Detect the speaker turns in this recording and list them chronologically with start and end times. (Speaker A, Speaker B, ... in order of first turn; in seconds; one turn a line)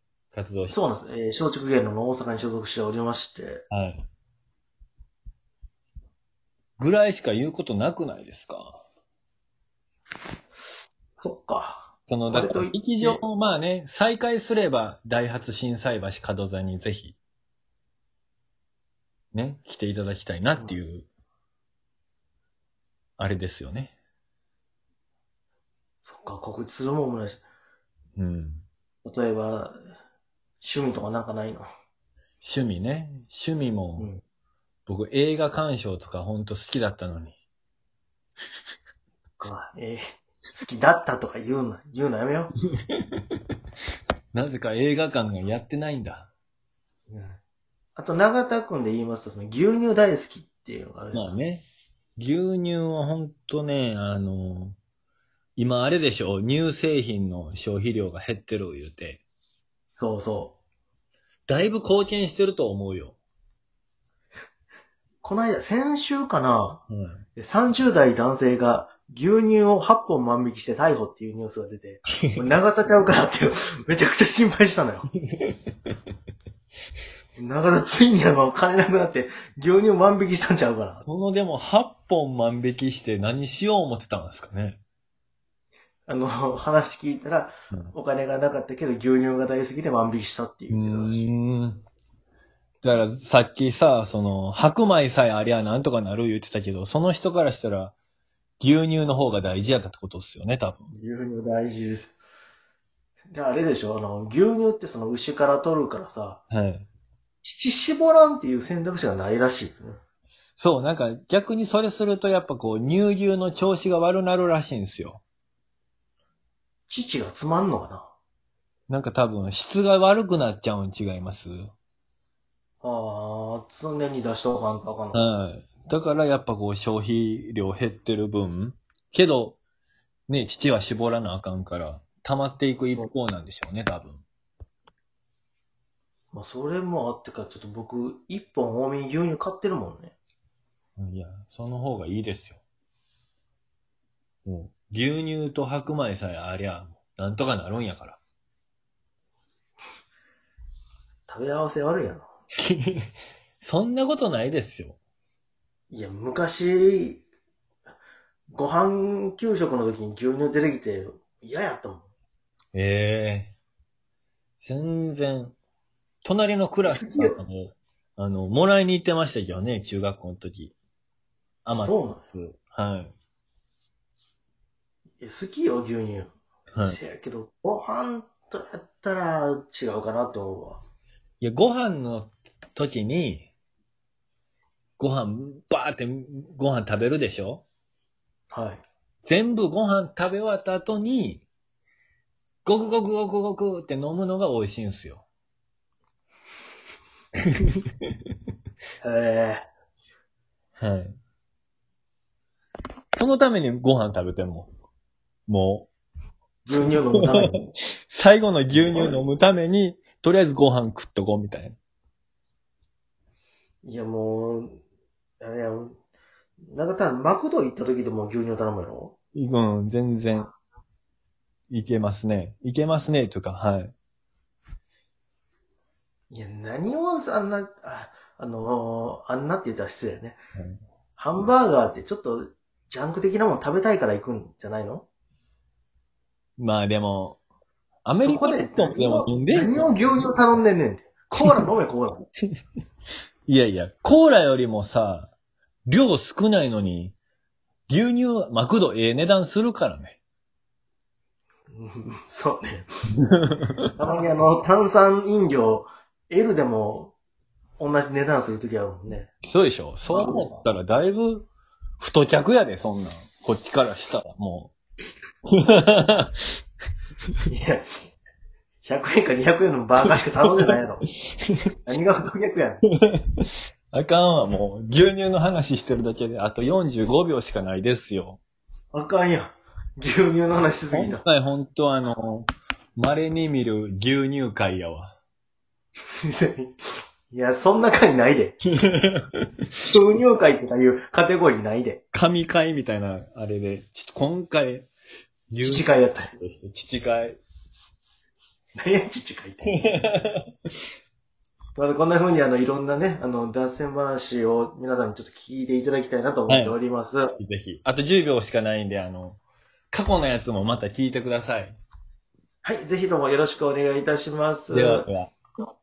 Speaker A: 0.3-0.8
Speaker B: 0.7-3.6
Speaker A: 3.7-4.0
Speaker A: 6.8-8.8
Speaker B: 11.2-13.2
Speaker A: 12.1-17.2
Speaker A: 19.3-21.1
Speaker A: 23.2-23.9
Speaker B: 26.1-27.4
Speaker A: 28.2-28.6
Speaker B: 29.1-29.8
Speaker B: 30.6-31.7
Speaker A: 32.4-34.1
Speaker A: 34.9-37.4
Speaker B: 39.4-40.0
Speaker B: 40.5-42.5
Speaker A: 42.7-43.4
Speaker A: 44.3-46.3
Speaker B: 47.1-47.4
Speaker B: 48.0-51.4
Speaker A: 51.1-51.7
Speaker A: 52.2-54.8
Speaker A: 55.6-59.2
Speaker B: 60.0-60.6
Speaker A: 61.5-63.2
Speaker B: 65.2-66.8
Speaker A: 66.9-67.2
Speaker B: 67.4-75.1
Speaker A: 75.2-75.7
Speaker B: 77.4-81.0
Speaker A: 81.0-84.8
Speaker B: 86.1-91.2
Speaker A: 90.7-91.8
Speaker A: 92.8-97.9
Speaker A: 98.6-100.9
Speaker B: 100.9-102.2
Speaker B: 103.3-106.4
Speaker A: 106.5-106.9
Speaker B: 107.4-110.0
Speaker A: 110.6-115.2
Speaker B: 116.9-118.1
Speaker A: 118.9-121.7
Speaker B: 122.8-125.2
Speaker A: 125.1-129.6
Speaker A: 130.3-134.2
Speaker B: 136.3-140.2
Speaker A: 141.0-142.6
Speaker A: 144.5-148.2
Speaker B: 151.3-152.3
Speaker A: 152.6-153.1
Speaker A: 153.6-155.0
Speaker B: 155.9-157.2
Speaker B: 158.5-162.1
Speaker A: 162.7-163.6
Speaker A: 164.6-165.6
Speaker A: 166.2-170.7
Speaker B: 166.8-167.4
Speaker A: 171.7-173.1
Speaker B: 171.7-172.2
Speaker B: 175.2-180.8
Speaker A: 176.7-177.0
Speaker A: 181.4-183.5
Speaker A: 185.0-187.6
Speaker B: 188.5-188.8
Speaker A: 189.2-191.4
Speaker A: 192.7-195.2
Speaker A: 197.4-198.3
Speaker B: 199.0-199.7
Speaker A: 200.8-201.2
Speaker A: 203.1-204.7
Speaker A: 205.5-205.9
Speaker B: 206.7-207.6
Speaker A: 207.2-211.8
Speaker B: 208.7-209.2
Speaker B: 213.8-214.8
Speaker B: 215.4-216.0
Speaker B: 216.7-219.2
Speaker A: 219.3-220.5
Speaker A: 221.7-223.9
Speaker B: 226.3-230.4
Speaker B: 231.2-235.1
Speaker A: 236.6-237.4
Speaker A: 238.1-240.3
Speaker B: 238.2-242.3
Speaker A: 243.5-245.3
Speaker A: 245.9-247.2
Speaker A: 247.9-250.2
Speaker B: 251.7-252.9
Speaker A: 253.2-253.9
Speaker B: 254.0-257.1
Speaker B: 257.8-259.3
Speaker A: 259.4-261.5
Speaker B: 260.1-260.7
Speaker A: 262.0-264.7
Speaker A: 265.5-266.5
Speaker B: 267.5-267.9
Speaker B: 268.8-271.1
Speaker A: 271.3-271.6
Speaker B: 271.9-272.8
Speaker A: 272.9-278.4
Speaker B: 278.9-281.2
Speaker A: 280.9-285.2
Speaker B: 286.2-288.6
Speaker A: 288.8-289.6
Speaker B: 289.9-292.0
Speaker A: 292.1-294.9
Speaker A: 295.5-297.4
Speaker B: 295.6-296.3
Speaker B: 298.8-299.8
Speaker A: 299.7-300.5
Speaker B: 301.8-307.4
Speaker A: 306.5-306.8
Speaker A: 307.4-309.4
Speaker A: 309.9-311.8
Speaker B: 312.6-315.1
Speaker A: 314.7-315.3